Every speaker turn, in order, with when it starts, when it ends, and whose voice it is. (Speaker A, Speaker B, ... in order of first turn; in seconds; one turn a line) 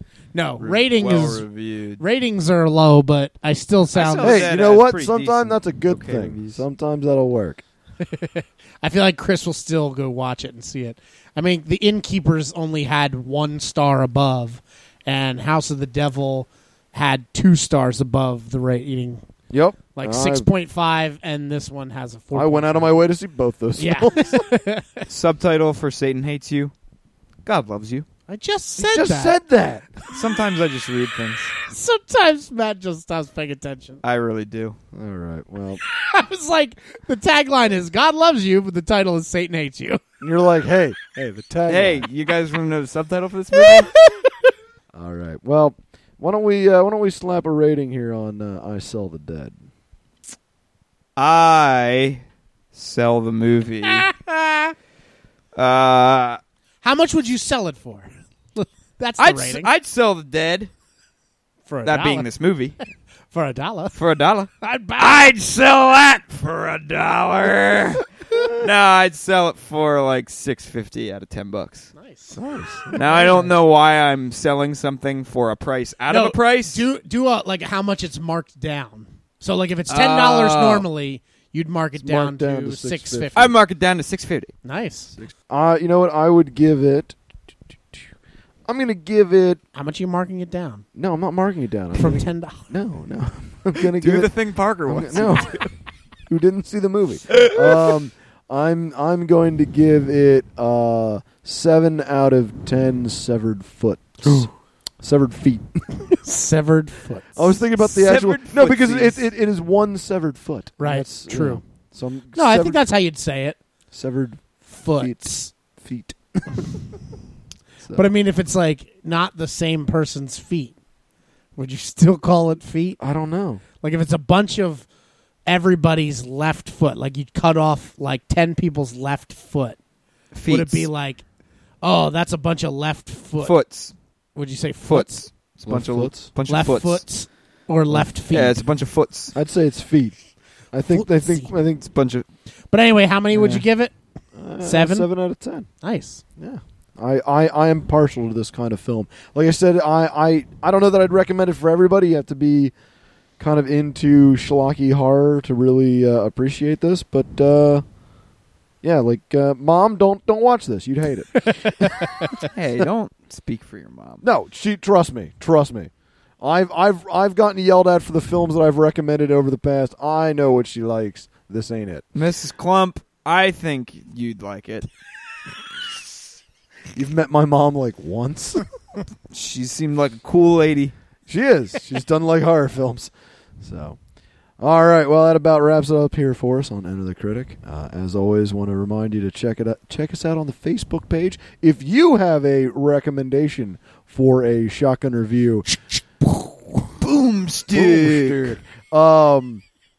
Speaker A: 0.3-1.4
Speaker B: 0.6-2.0
Speaker A: 2.0-4.5
Speaker B: 3.9-6.6
Speaker C: 4.2-7.6
Speaker A: 8.0-19.2
Speaker C: 19.5-20.5
Speaker A: 19.9-22.9
Speaker C: 22.3-24.4
Speaker A: 23.8-25.1
Speaker B: 25.1-26.7
Speaker B: 27.4-28.1
Speaker A: 28.3-29.4
Speaker C: 28.8-30.0
Speaker B: 30.1-31.5
Speaker A: 31.7-34.0
Speaker B: 34.0-34.8
Speaker C: 34.9-35.8
Speaker A: 36.0-40.0
Speaker C: 40.2-42.1
Speaker B: 41.7-44.0
Speaker A: 43.5-44.2
Speaker C: 44.9-49.5
Speaker B: 51.2-52.2
Speaker B: 52.7-54.1
Speaker A: 53.9-54.7
Speaker B: 55.5-56.4
Speaker A: 56.8-59.7
Speaker B: 59.2-60.7
Speaker A: 61.7-62.3
Speaker B: 61.8-62.8
Speaker A: 63.3-64.0
Speaker B: 63.9-71.9
Speaker A: 64.6-65.3
Speaker A: 72.0-72.4
Speaker C: 72.3-73.4
Speaker A: 72.9-73.5
Speaker B: 72.9-76.8
Speaker A: 76.1-83.5
Speaker B: 79.9-80.9
Speaker C: 82.0-83.4
Speaker B: 83.3-84.5
Speaker A: 84.6-85.1
Speaker C: 85.1-87.2
Speaker C: 88.7-89.6
Speaker A: 89.7-90.8
Speaker C: 91.0-94.3
Speaker A: 91.9-92.7
Speaker B: 93.8-95.7
Speaker C: 94.9-95.6
Speaker C: 96.3-104.5
Speaker B: 97.3-98.0
Speaker C: 105.0-106.0
Speaker A: 106.2-107.5
Speaker C: 107.3-112.8
Speaker B: 107.9-109.3
Speaker A: 110.8-111.6
Speaker A: 112.3-113.6
Speaker C: 113.9-116.8
Speaker A: 114.7-115.5
Speaker C: 117.8-118.1
Speaker A: 117.9-120.7
Speaker A: 121.5-123.0
Speaker C: 123.0-123.6
Speaker A: 123.8-124.9
Speaker A: 125.5-129.8
Speaker B: 130.3-130.9
Speaker A: 130.4-131.2
Speaker A: 131.8-133.6
Speaker B: 133.4-133.9
Speaker A: 134.3-135.2
Speaker B: 134.9-137.0
Speaker C: 135.7-136.3
Speaker A: 136.5-138.6
Speaker B: 138.3-139.4
Speaker C: 139.3-140.2
Speaker C: 140.7-141.9
Speaker A: 140.9-141.5
Speaker B: 141.9-142.3
Speaker A: 142.7-143.9
Speaker B: 143.3-143.6
Speaker C: 144.4-145.7
Speaker A: 144.6-145.1
Speaker A: 145.8-146.2
Speaker C: 146.4-152.7
Speaker C: 153.4-157.8
Speaker C: 158.8-162.3
Speaker B: 162.4-164.2
Speaker C: 164.2-172.1
Speaker B: 172.1-174.9
Speaker C: 176.9-178.6
Speaker B: 179.3-180.9
Speaker C: 181.3-184.0
Speaker C: 184.6-195.7
Speaker B: 196.9-198.6
Speaker C: 197.7-199.6